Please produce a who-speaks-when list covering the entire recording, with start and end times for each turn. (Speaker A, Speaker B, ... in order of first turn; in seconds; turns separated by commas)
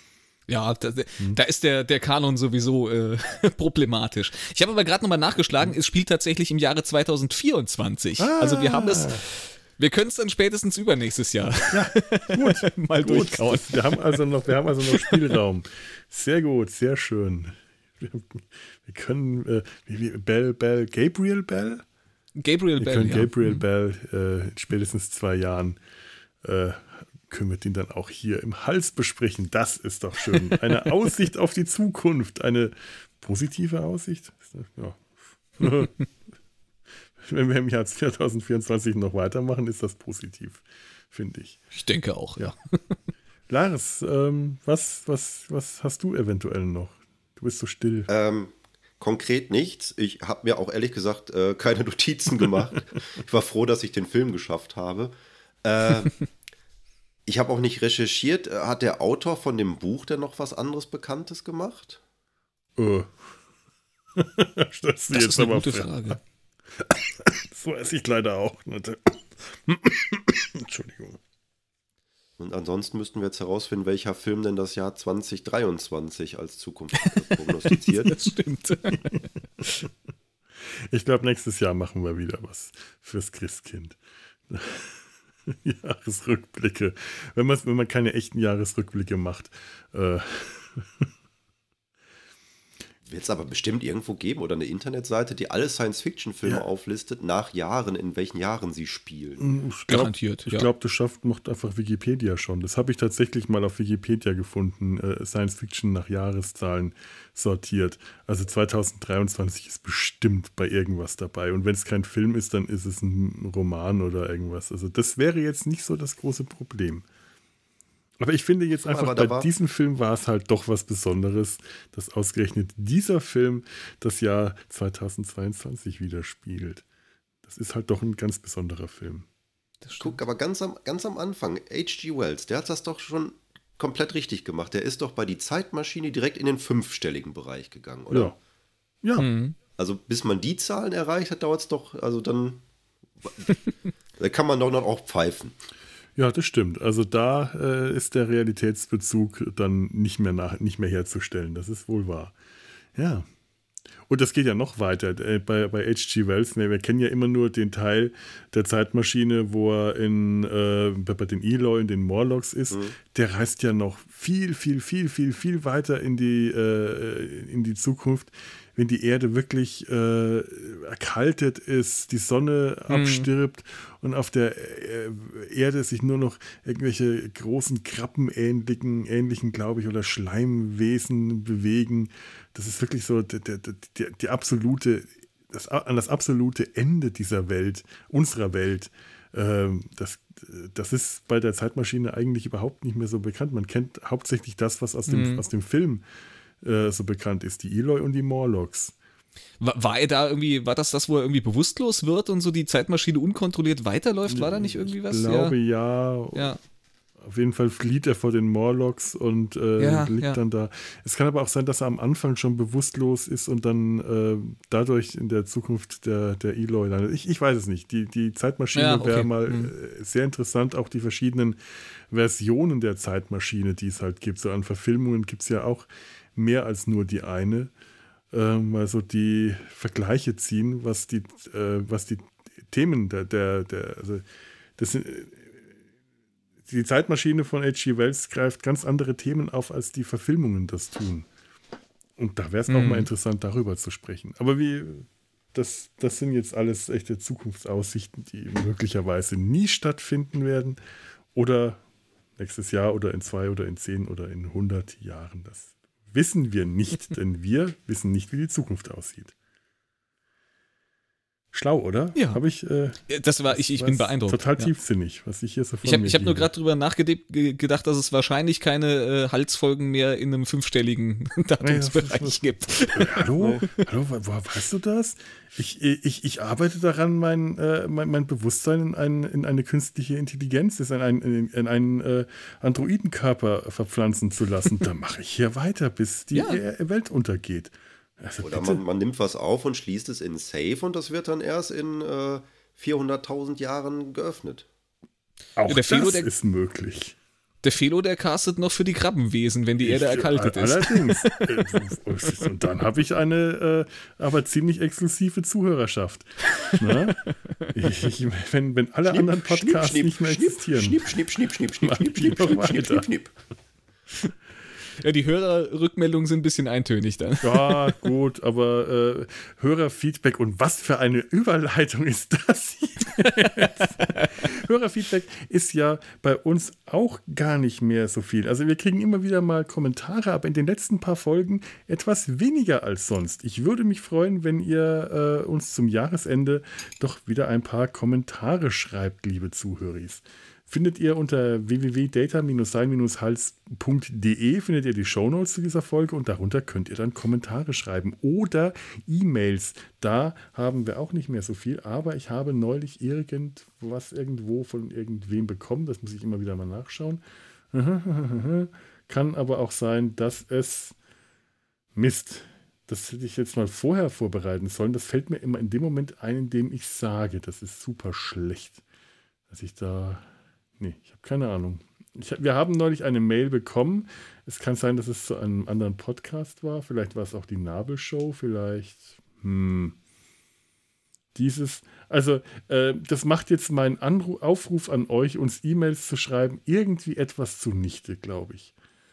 Speaker A: 0.5-14.2, Speaker B: 8.2-9.2, Speaker B: 11.7-21.8, Speaker A: 14.9-15.3, Speaker A: 22.4-23.6, Speaker B: 22.8-25.8, Speaker B: 26.4-36.0, Speaker B: 37.2-41.6, Speaker A: 41.7-42.9, Speaker B: 43.5-48.1, Speaker C: 48.1-56.3, Speaker C: 57.3-62.0, Speaker B: 62.8-63.2, Speaker B: 64.2-66.2, Speaker A: 65.1-66.2, Speaker B: 66.8-71.2, Speaker C: 72.4-78.3, Speaker A: 77.7-79.0, Speaker B: 78.9-79.2, Speaker B: 80.7-84.0, Speaker B: 84.5-91.1, Speaker C: 93.0-99.5, Speaker B: 99.4-117.0, Speaker A: 99.9-100.7, Speaker B: 118.2-126.8, Speaker C: 118.8-119.5, Speaker B: 127.5-129.3, Speaker A: 129.8-130.2, Speaker C: 130.0-138.4, Speaker B: 139.0-139.3, Speaker A: 139.2-139.6, Speaker C: 139.8-142.6, Speaker C: 143.2-143.5, Speaker C: 144.2-145.6, Speaker B: 146.2-152.4, Speaker B: 152.9-153.3, Speaker B: 154.1-196.0, Speaker C: 162.7-163.0, Speaker A: 172.9-173.3, Speaker A: 195.1-195.4, Speaker B: 196.6-198.9, Speaker A: 199.6-205.6, Speaker B: 204.3-206.6, Speaker A: 206.3-206.6, Speaker B: 207.2-227.7, Speaker A: 209.8-210.4, Speaker A: 218.7-219.7, Speaker B: 228.3-234.2, Speaker B: 234.8-235.7, Speaker B: 236.7-241.3, Speaker B: 242.2-250.8, Speaker A: 242.7-243.1, Speaker B: 251.3-251.8, Speaker B: 252.4-259.3, Speaker B: 261.5-266.5, Speaker A: 262.1-262.4, Speaker A: 263.1-264.7, Speaker A: 265.8-273.9, Speaker B: 271.6-288.8, Speaker A: 286.3-286.6, Speaker C: 288.4-294.7, Speaker B: 295.6-297.2, Speaker A: 295.7-296.3, Speaker A: 297.6-301.8, Speaker B: 299.8-307.2, Speaker A: 306.6-307.7, Speaker B: 307.7-311.1, Speaker C: 309.1-313.3, Speaker B: 311.8-313.1, Speaker A: 315.0-318.0, Speaker B: 317.4-361.0, Speaker A: 323.3-324.3, Speaker B: 361.9-368.8, Speaker B: 369.5-380.0, Speaker B: 381.4-388.7